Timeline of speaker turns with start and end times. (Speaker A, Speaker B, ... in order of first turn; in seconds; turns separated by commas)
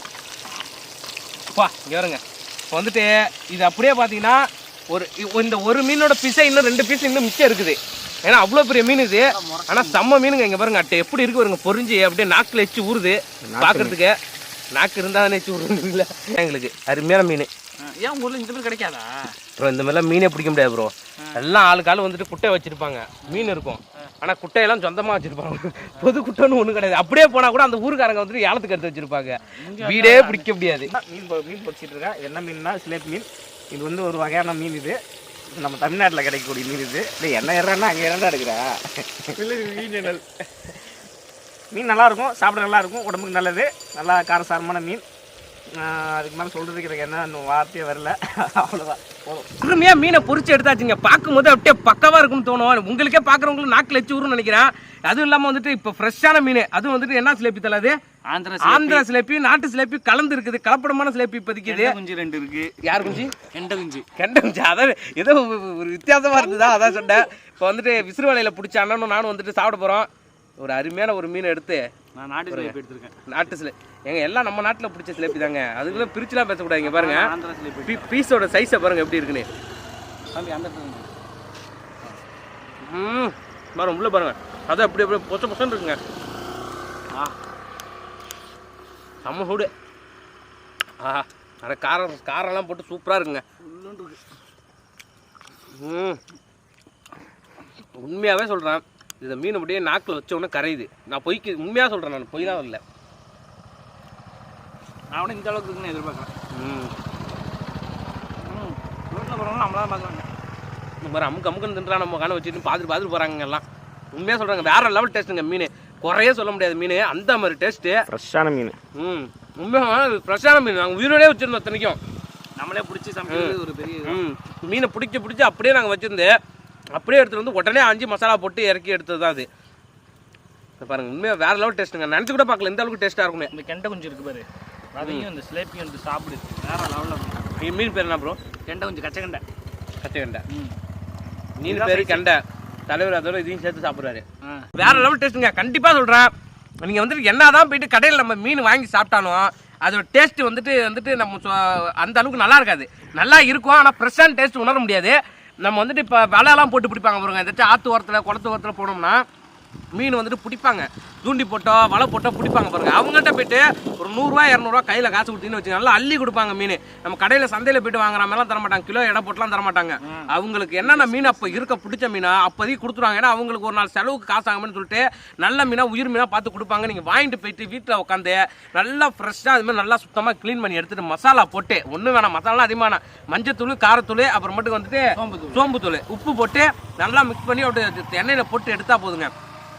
Speaker A: 1.5-14.2, Speaker B: 9.3-10.0, Speaker C: 13.5-14.0, Speaker A: 14.7-17.5, Speaker B: 17.8-19.4, Speaker A: 19.6-30.9, Speaker B: 23.3-23.5, Speaker B: 29.5-30.5, Speaker C: 30.9-35.0, Speaker C: 35.5-40.1, Speaker A: 39.5-40.2, Speaker C: 41.7-45.0, Speaker C: 45.8-49.5, Speaker A: 49.6-58.0, Speaker B: 58.3-59.0, Speaker A: 58.6-62.0, Speaker B: 61.6-62.7, Speaker A: 62.8-63.4, Speaker B: 63.4-64.0, Speaker A: 64.2-71.8, Speaker B: 72.2-73.1, Speaker A: 72.5-77.3, Speaker B: 76.8-78.1, Speaker A: 77.8-79.5, Speaker B: 80.3-81.1, Speaker A: 82.8-86.0, Speaker A: 89.2-89.7, Speaker A: 91.0-93.4, Speaker B: 93.6-94.2, Speaker A: 95.7-96.2, Speaker A: 98.0-102.8, Speaker B: 105.1-106.3, Speaker A: 106.5-106.9, Speaker B: 108.4-110.3, Speaker A: 111.0-118.0, Speaker C: 118.1-118.8, Speaker A: 119.0-122.0, Speaker B: 122.6-124.2, Speaker A: 123.3-126.3, Speaker A: 126.9-129.5, Speaker A: 130.8-133.5, Speaker B: 133.5-137.4, Speaker A: 135.0-135.3, Speaker A: 137.6-138.4, Speaker B: 138.7-139.4, Speaker A: 140.0-140.4, Speaker B: 140.5-140.8, Speaker A: 141.6-144.2, Speaker B: 141.7-142.3, Speaker B: 144.4-145.1, Speaker A: 144.8-146.3, Speaker A: 146.8-159.2, Speaker A: 159.9-189.3, Speaker B: 170.0-170.3, Speaker B: 170.8-171.6, Speaker B: 185.2-185.7